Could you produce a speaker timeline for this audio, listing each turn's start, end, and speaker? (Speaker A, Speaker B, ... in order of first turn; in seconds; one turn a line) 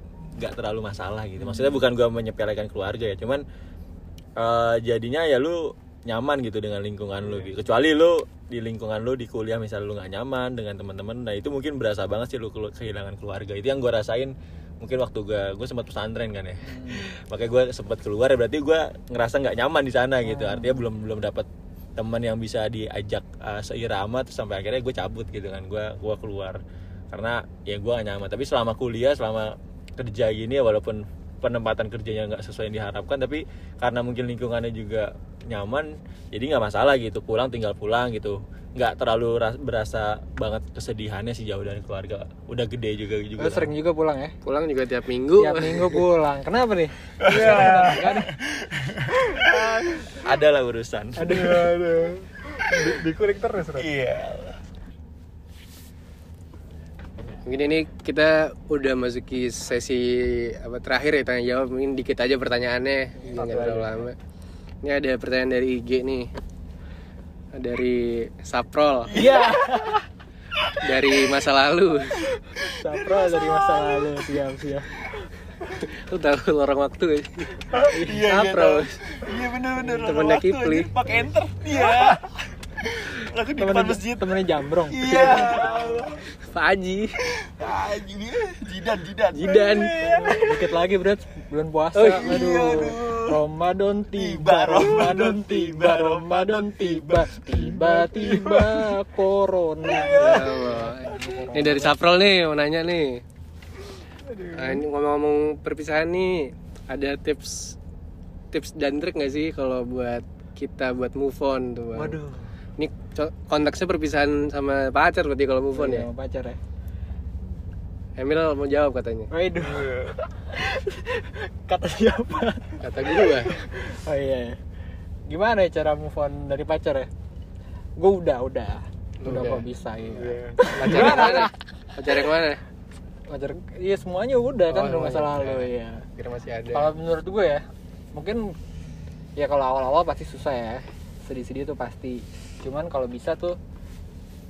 Speaker A: 0.4-3.4
Speaker A: 4.4-26.6
Speaker B: 16.6-17.1
Speaker B: 20.2-20.9
Speaker A: 27.1-43.7
Speaker B: 43.4-44.3
Speaker C: 44.4-46.0
Speaker B: 45.4-48.3
Speaker A: 47.2-51.4
Speaker D: 47.3-48.1
Speaker D: 49.3-50.1
Speaker B: 51.2-51.7
Speaker D: 51.3-53.9
Speaker A: 53.8-54.6
Speaker C: 57.5-64.2
Speaker D: 63.4-63.9
Speaker C: 64.8-66.3
Speaker C: 67.5-69.1
Speaker A: 69.1-70.0
Speaker B: 69.1-70.0
Speaker A: 70.5-71.2
Speaker C: 70.8-72.2
Speaker A: 72.3-74.3
Speaker B: 72.7-75.0
Speaker C: 75.8-79.0
Speaker A: 77.7-86.2
Speaker B: 77.9-78.2
Speaker C: 80.0-80.9
Speaker B: 83.6-85.8
Speaker C: 86.4-87.2
Speaker A: 87.3-90.8
Speaker C: 89.3-89.9
Speaker B: 90.0-101.9
Speaker C: 92.0-92.3
Speaker A: 92.1-93.4
Speaker A: 94.1-98.9
Speaker D: 97.7-98.6
Speaker A: 99.8-101.3
Speaker C: 100.2-103.2
Speaker D: 104.3-104.8
Speaker C: 104.5-107.8
Speaker C: 108.5-112.2
Speaker B: 112.0-112.5
Speaker C: 112.8-116.1
Speaker B: 115.7-116.6
Speaker C: 118.2-119.3
Speaker B: 119.3-120.0
Speaker A: 119.6-120.2
Speaker B: 120.5-124.6
Speaker C: 122.8-123.5
Speaker B: 125.3-127.1
Speaker B: 128.0-131.5
Speaker C: 129.2-129.7
Speaker D: 130.1-131.5
Speaker C: 130.8-132.6
Speaker B: 133.3-136.1
Speaker C: 134.7-136.9
Speaker B: 136.7-138.6
Speaker B: 139.4-143.6